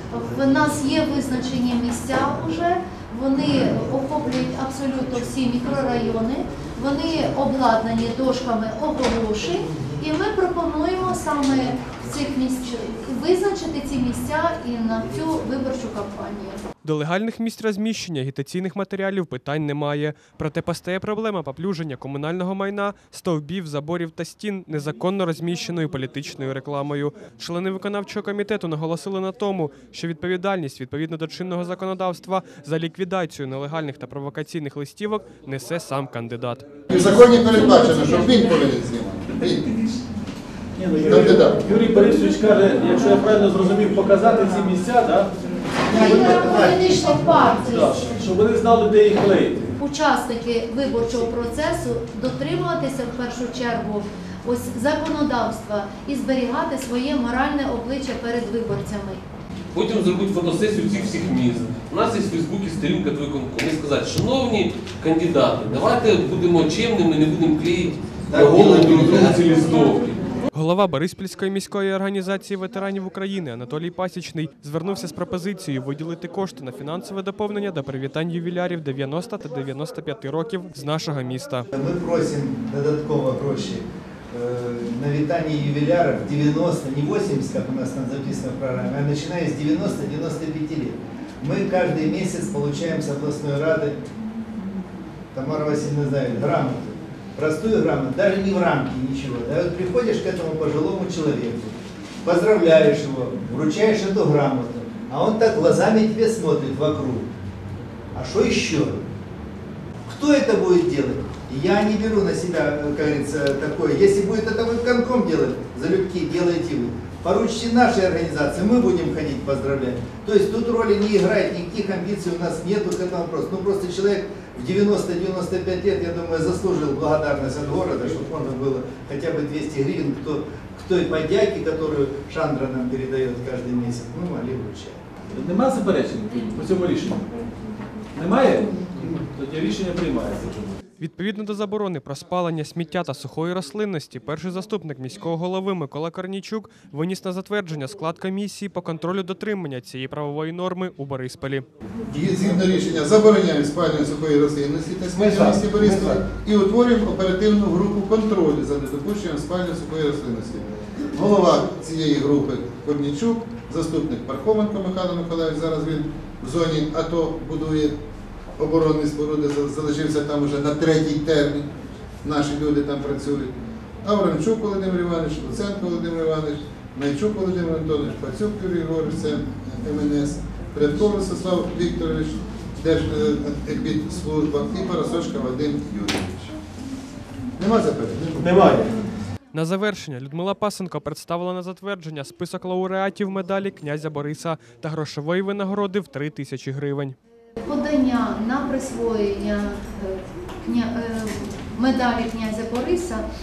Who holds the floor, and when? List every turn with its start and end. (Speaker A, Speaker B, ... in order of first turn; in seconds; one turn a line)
Speaker A: 0.1-16.6
Speaker B: 16.8-36.8
Speaker C: 36.9-39.7
Speaker A: 37.2-38.4
Speaker D: 40.8-45.3
Speaker C: 41.0-41.6
Speaker E: 45.9-46.9
Speaker A: 45.9-48.1
Speaker D: 45.9-46.8
Speaker D: 47.5-49.8
Speaker A: 49.8-59.2
Speaker F: 59.7-70.2
Speaker E: 68.3-69.7
Speaker B: 70.5-81.7
Speaker E: 81.7-94.0
Speaker E: 95.3-107.3
Speaker E: 108.1-109.0
Speaker E: 110.1-135.0
Speaker D: 135.3-137.4
Speaker D: 138.1-140.8
Speaker B: 141.0-151.7
Speaker C: 152.1-167.9
Speaker C: 168.6-171.7
Speaker C: 172.2-186.5
Speaker C: 187.6-188.6
Speaker B: 189.5-197.2
Speaker A: 197.6-203.2